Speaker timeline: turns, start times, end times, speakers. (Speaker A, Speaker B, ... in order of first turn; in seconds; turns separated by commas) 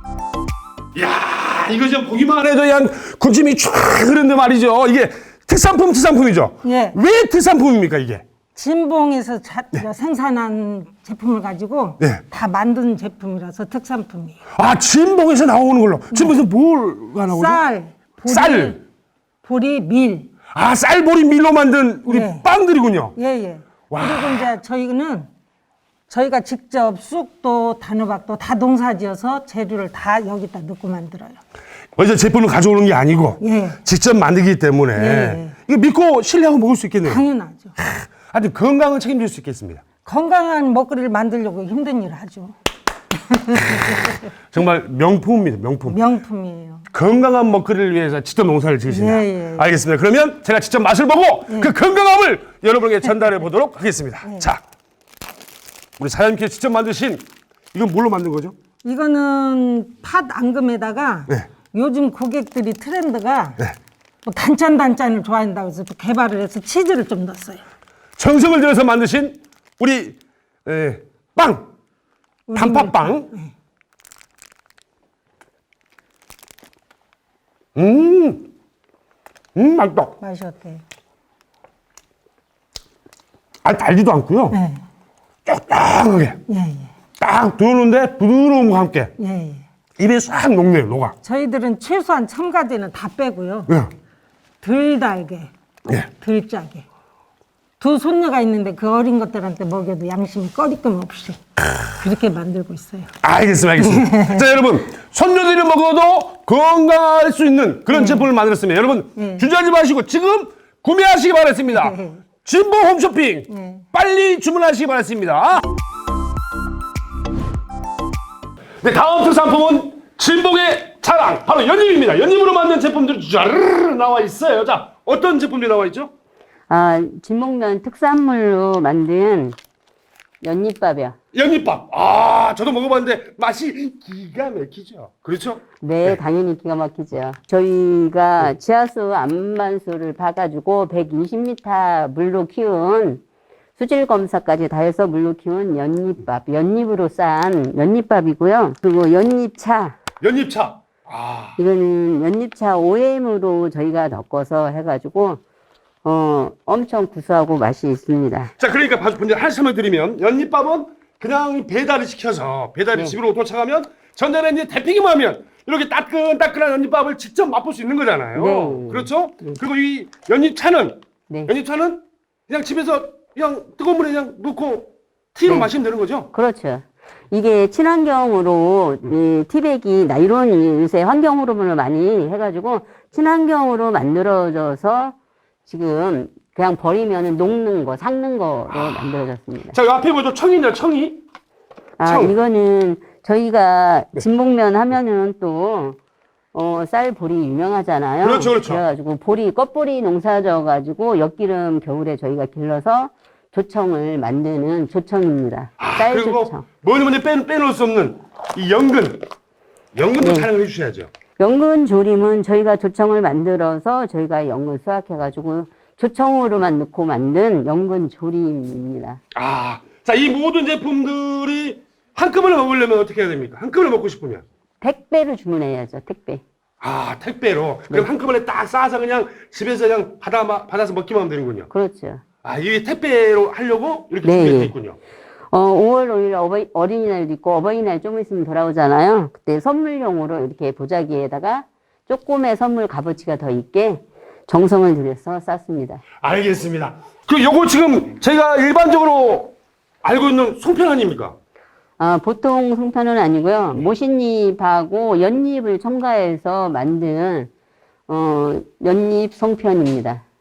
Speaker A: 0.9-8.2, Speaker B: 6.6-7.0, Speaker B: 8.5-14.4, Speaker A: 12.0-12.2, Speaker A: 14.5-17.6, Speaker B: 16.1-16.4, Speaker B: 17.2-18.8, Speaker A: 18.3-18.8, Speaker B: 19.4-20.3, Speaker A: 20.5-23.1, Speaker B: 22.1-22.4, Speaker B: 23.2-25.3, Speaker A: 23.9-24.5, Speaker B: 26.1-31.4, Speaker A: 32.0-37.2, Speaker B: 33.4-33.8, Speaker B: 34.9-35.5, Speaker B: 37.0-37.8, Speaker A: 37.8-39.8, Speaker B: 40.0-42.5, Speaker B: 43.3-44.1, Speaker A: 44.5-46.0, Speaker B: 45.9-46.8, Speaker A: 46.9-54.6, Speaker B: 48.9-49.7, Speaker B: 51.5-51.7, Speaker B: 54.2-54.5, Speaker A: 56.0-58.5, Speaker B: 58.8-63.6, Speaker B: 64.2-67.6, Speaker A: 68.2-71.7, Speaker B: 72.5-73.5, Speaker A: 72.5-73.3, Speaker A: 77.8-78.5, Speaker A: 79.5-80.1, Speaker B: 80.2-80.8, Speaker A: 83.6-84.6, Speaker B: 84.5-84.8, Speaker A: 85.5-86.4, Speaker B: 86.5-86.9, Speaker A: 87.2-89.1, Speaker B: 89.2-89.6, Speaker A: 90.0-91.1, Speaker B: 91.2-93.7, Speaker B: 94.6-96.8, Speaker B: 97.8-101.4, Speaker B: 101.9-103.1, Speaker A: 103.2-115.6, Speaker B: 103.8-104.4, Speaker B: 107.9-108.3, Speaker B: 109.2-109.5, Speaker B: 111.7-112.2, Speaker B: 113.5-113.8, Speaker A: 118.8-126.1, Speaker C: 126.7-129.6, Speaker C: 130.4-131.2, Speaker A: 131.3-136.2, Speaker C: 135.8-143.2, Speaker C: 143.8-149.9, Speaker A: 150.2-151.5, Speaker C: 151.6-155.4, Speaker C: 156.0-158.5, Speaker A: 158.6-176.3, Speaker C: 168.3-169.5, Speaker C: 175.4-175.7, Speaker C: 176.3-185.2, Speaker C: 185.7-189.8, Speaker A: 189.7-191.2, Speaker C: 192.0-196.0, Speaker A: 192.0-192.3, Speaker C: 196.5-206.7, Speaker A: 198.2-198.8, Speaker A: 205.8-209.2, Speaker A: 209.9-211.1, Speaker C: 210.2-210.5, Speaker C: 211.4-219.2, Speaker A: 219.3-224.4, Speaker C: 224.8-226.4, Speaker A: 226.8-231.7, Speaker C: 231.7-232.2, Speaker A: 232.4-235.0, Speaker C: 234.2-234.7, Speaker C: 235.5-246.0, Speaker A: 246.2-251.3, Speaker C: 252.0-257.5, Speaker C: 258.1-260.2